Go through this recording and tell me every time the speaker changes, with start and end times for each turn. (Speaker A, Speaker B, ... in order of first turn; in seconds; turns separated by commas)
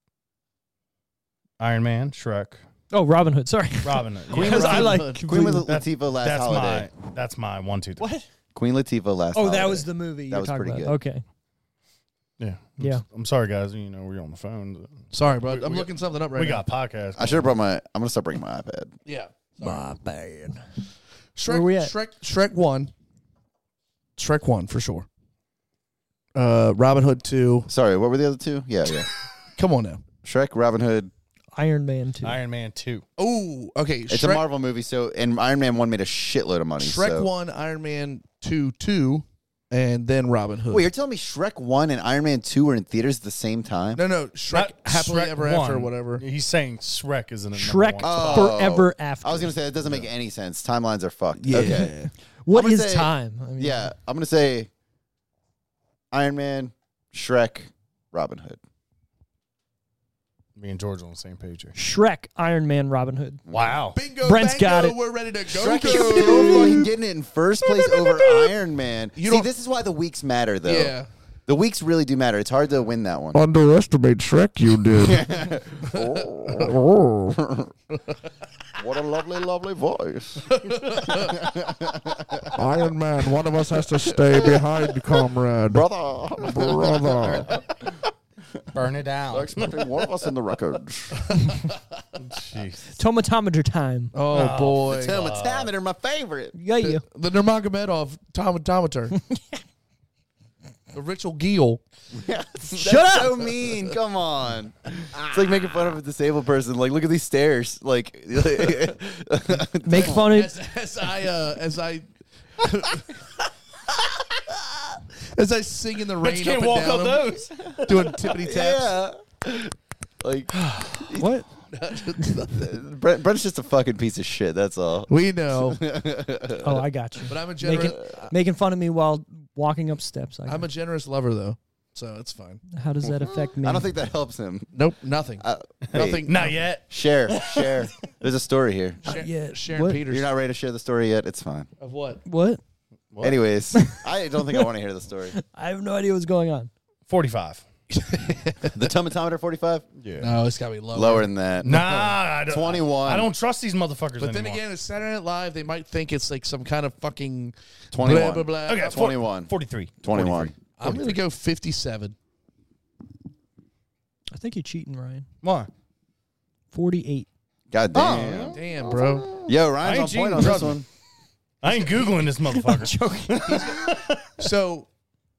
Speaker A: 1.6-2.6, Speaker B: 2.9-5.7, Speaker A: 3.8-5.1, Speaker C: 4.3-5.3, Speaker D: 4.3-6.9, Speaker A: 5.6-8.0, Speaker B: 8.0-8.3, Speaker D: 8.6-11.0, Speaker B: 9.3-11.2, Speaker A: 12.4-17.5, Speaker C: 15.1-16.6, Speaker D: 17.2-18.9, Speaker C: 19.1-19.9, Speaker B: 19.6-20.6, Speaker C: 21.4-22.9, Speaker B: 21.5-21.9, Speaker C: 24.2-25.1, Speaker C: 26.4-27.7, Speaker D: 27.7-29.1, Speaker C: 29.6-30.0, Speaker D: 30.2-31.1, Speaker B: 31.6-32.4, Speaker A: 32.2-33.0, Speaker C: 33.2-34.5, Speaker D: 34.1-37.3, Speaker C: 36.8-40.9, Speaker D: 40.7-44.0, Speaker C: 44.0-46.2, Speaker A: 44.5-48.5, Speaker B: 47.5-49.5, Speaker D: 48.0-51.9, Speaker C: 51.4-52.1, Speaker B: 52.5-53.9, Speaker D: 52.5-54.7, Speaker D: 56.1-58.6, Speaker A: 60.6-61.7, Speaker B: 61.8-63.4, Speaker D: 63.5-63.8, Speaker A: 63.5-64.0, Speaker C: 63.9-66.9, Speaker B: 64.2-65.0, Speaker D: 65.5-71.0, Speaker B: 65.8-66.8, Speaker C: 69.2-69.5, Speaker C: 70.7-71.1, Speaker D: 71.5-73.4, Speaker E: 73.3-75.3, Speaker D: 75.0-76.8, Speaker C: 75.9-76.7, Speaker E: 76.6-77.3, Speaker D: 77.3-77.7, Speaker D: 78.8-82.5, Speaker C: 80.5-81.4, Speaker E: 82.5-85.9, Speaker D: 85.7-87.6, Speaker E: 86.4-87.5, Speaker A: 88.7-89.9, Speaker D: 89.3-91.4, Speaker A: 92.2-92.9, Speaker B: 93.0-94.1, Speaker C: 94.1-95.2, Speaker A: 94.3-95.7, Speaker D: 94.8-96.5, Speaker B: 96.5-97.0, Speaker C: 96.8-99.2, Speaker C: 100.9-101.8, Speaker D: 102.1-110.2, Speaker B: 102.7-103.4, Speaker B: 109.8-110.5, Speaker C: 110.0-113.2, Speaker C: 115.2-119.0, Speaker A: 116.2-118.1, Speaker D: 118.3-121.3, Speaker B: 121.2-121.5, Speaker C: 121.7-122.8, Speaker D: 122.5-126.8, Speaker C: 125.1-125.8, Speaker B: 126.6-130.7, Speaker C: 127.2-128.3, Speaker D: 127.7-128.1, Speaker C: 130.5-132.6, Speaker B: 132.7-133.9, Speaker D: 133.0-134.7, Speaker C: 134.7-136.7, Speaker D: 135.4-136.3, Speaker A: 135.9-137.7, Speaker D: 136.9-139.0, Speaker C: 139.0-140.3, Speaker B: 139.1-140.0, Speaker D: 140.1-141.7, Speaker C: 141.8-142.2, Speaker B: 142.2-142.6, Speaker A: 143.1-143.4, Speaker D: 143.2-145.3, Speaker B: 143.7-144.7, Speaker B: 145.3-146.7, Speaker A: 147.1-147.7, Speaker C: 147.9-148.9, Speaker D: 148.7-149.8, Speaker A: 150.0-150.3, Speaker C: 150.2-152.1, Speaker D: 150.9-153.3, Speaker A: 151.6-154.6, Speaker C: 154.2-159.1, Speaker D: 157.9-159.5, Speaker A: 158.7-161.2, Speaker D: 160.0-160.5, Speaker C: 160.8-162.2, Speaker B: 164.3-165.3, Speaker A: 165.4-165.7, Speaker B: 166.7-167.3, Speaker D: 167.7-168.6, Speaker A: 167.9-170.8, Speaker C: 168.4-169.3, Speaker D: 169.5-170.9, Speaker A: 171.6-174.3, Speaker B: 172.4-173.7, Speaker C: 173.5-173.9, Speaker C: 174.4-174.9